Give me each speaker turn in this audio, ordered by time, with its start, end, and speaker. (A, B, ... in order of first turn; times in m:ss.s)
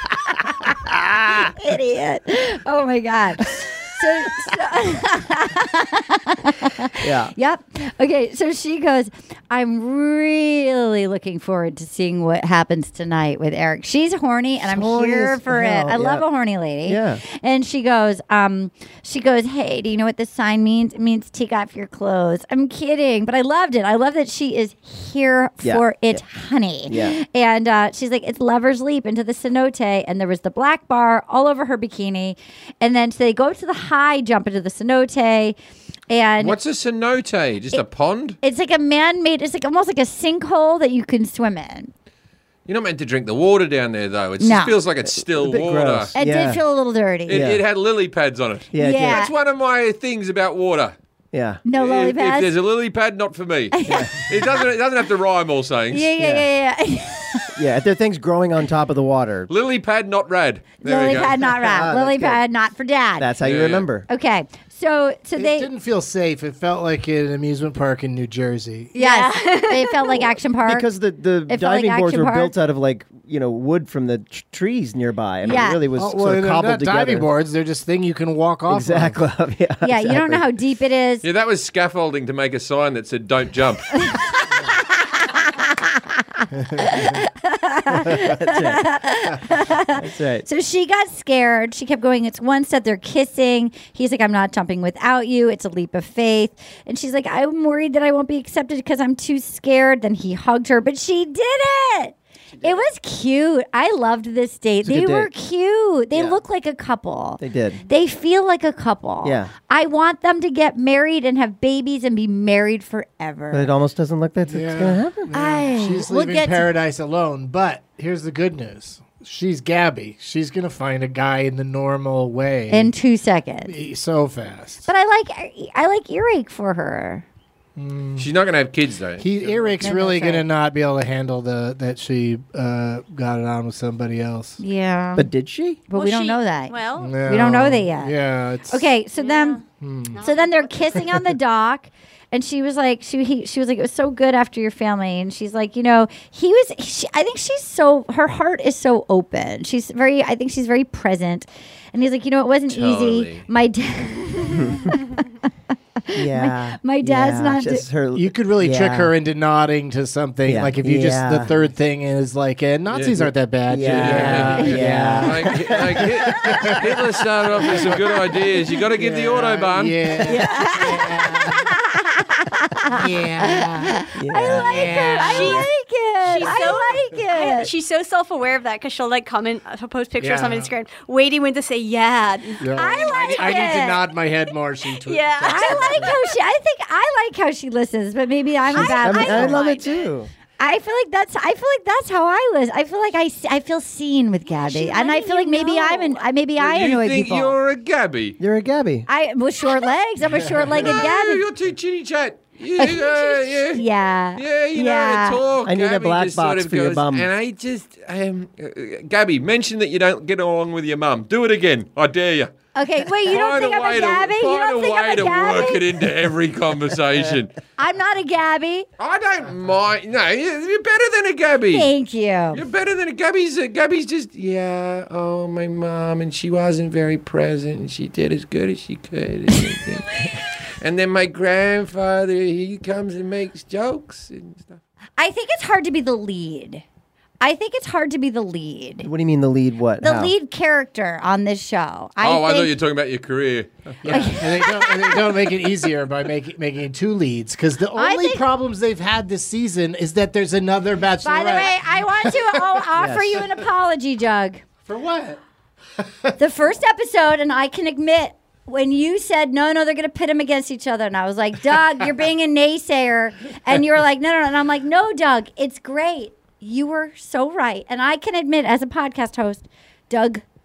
0:00.4-0:00.8 A
0:00.9-0:01.5 B
0:01.3-0:35.6 A
0:07.0-0:07.3 B
0:14.6-0:16.3 B
0:16.9-0:17.2 B
0:25.6-0:26.2 B
0:26.9-0:27.2 B
0:36.1-0:36.6 A
0:36.4-0:38.4 C
0:38.4-0:41.9 A
0:42.7-0:46.1 C
0:44.4-0:44.8 A
0:45.1-0:46.6 B
0:46.2-0:47.5 A
0:47.3-0:51.0 C
0:47.3-0:47.6 B
0:48.7-0:49.3 B
0:48.8-0:49.3 A
0:51.3-0:51.6 B
0:51.7-0:52.5 A
0:51.7-0:56.1 C
0:53.7-0:54.3 A
0:53.9-0:54.4 B
0:55.9-0:57.5 A
0:56.2-0:56.5 B
0:57.6-0:59.5 B
0:59.5-1:01.4 C
1:00.8-1:03.3 A
1:01.4-1:02.4 B
1:03.2-1:04.1 B
1:03.4-1:03.8 C
1:04.1-1:05.7 A
1:05.4-1:09.0 D
1:09.0-1:10.3 E
1:09.0-1:10.9 A
1:10.6-1:17.3 B
1:11.5-1:12.5 A
1:15.4-1:15.8 A
1:16.0-1:19.2 D
1:18.7-1:20.4 B
1:19.8-1:21.2 A
1:21.2-1:24.0 C
1:25.0-1:53.7 A
1:26.6-1:27.0 D
1:27.9-1:28.9 B
1:29.6-1:30.5 B
1:44.8-1:45.3 B
1:46.1-1:46.4 B
1:47.4-1:47.8 B
1:49.2-1:49.5 B
1:53.5-1:55.3 B
1:54.5-2:02.9 D
1:55.3-1:56.7 A
2:02.7-2:03.7 A
2:03.7-2:04.9 D
2:04.9-2:07.2 A
2:07.8-2:08.3 D
2:08.2-2:09.8 C
2:09.2-2:14.6 D
2:09.8-2:10.4 A
2:14.6-2:15.3 A
2:15.2-2:15.8 B
2:15.9-2:18.2 A
2:15.9-2:17.2 E
2:17.0-2:18.9 D
2:18.7-2:19.6 A
2:19.1-2:21.1 E
2:19.8-2:20.2 D
2:20.2-2:35.2 A
2:32.7-2:33.5 C
2:34.4-2:34.9 B
2:36.1-2:37.9 A
2:36.1-2:39.1 B
2:38.1-2:46.9 D
2:40.4-2:41.7 B
2:42.9-2:43.3 C
2:43.7-2:46.7 B
2:43.8-2:50.0 C
2:47.6-2:48.4 D
2:49.0-2:51.6 D
2:50.2-2:51.4 B
2:50.3-2:57.7 A
2:52.9-2:55.6 D
2:54.2-2:55.0 B
2:54.9-2:55.7 E
2:56.2-3:03.8 E
3:00.2-3:00.7 D
3:02.6-3:06.1 D
3:02.8-3:04.0 A
3:05.0-3:06.4 E
3:05.5-3:09.7 A
3:08.7-3:10.1 E
3:08.7-3:10.3 B
3:10.6-3:17.6 A
3:14.6-3:16.2 E
3:16.6-3:18.4 C
3:18.4-3:19.1 B
3:19.1-3:21.4 A
3:20.8-3:23.8 C
3:22.8-3:25.4 A
3:24.4-3:32.5 C
3:25.7-3:27.3 B
3:32.8-3:35.9 A
3:33.1-3:37.6 C
3:37.8-3:38.9 A
3:39.0-3:41.9 C
3:41.7-3:42.6 A
3:42.5-3:54.8 C
3:55.2-3:56.8 A
3:57.4-3:59.1 A
3:59.0-4:00.3 B
4:00.0-4:02.7 A
4:02.2-4:04.3 C
4:04.0-4:12.8 D
4:04.1-4:05.4 A
4:08.0-4:08.4 A
4:11.2-4:14.6 A
4:13.0-4:13.5 B
4:14.8-4:15.4 D
4:16.4-4:30.4 A